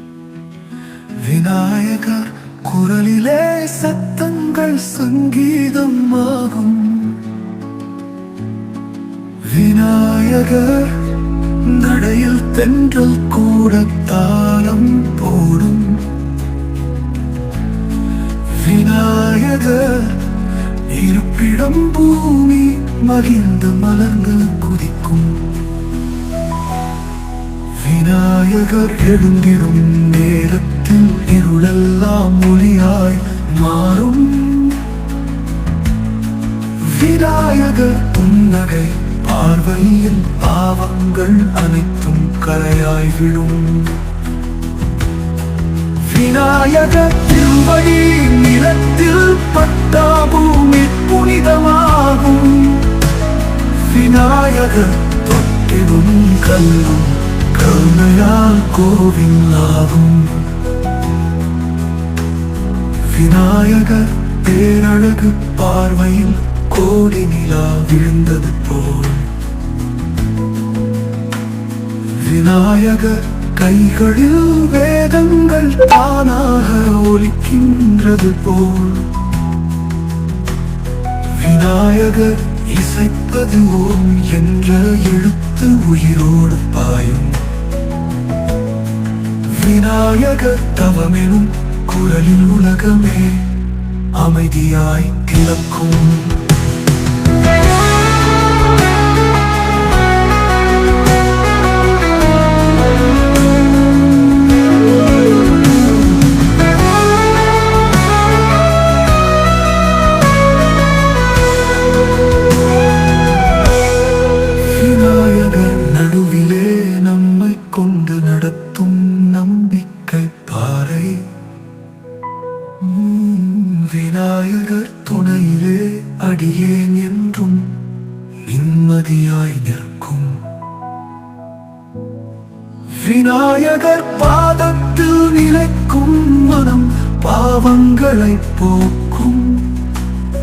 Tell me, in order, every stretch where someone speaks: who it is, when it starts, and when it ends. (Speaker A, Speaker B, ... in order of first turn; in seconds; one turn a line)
Speaker A: 1.1-7.3
Speaker A: 9.4-16.1
Speaker A: 18.5-25.6
Speaker A: 27.7-34.9
Speaker A: 36.8-44.0
Speaker A: 46.0-53.0
Speaker A: 53.7-60.5
Speaker A: 63.0-69.3
Speaker A: 72.1-79.2
Speaker A: 81.3-87.4
Speaker A: 89.4-93.6
Speaker A: 94.1-96.4
Speaker A: 114.6-121.3
Speaker A: 122.8-127.8
Speaker A: 128.4-130.4
Speaker A: 132.9-139.8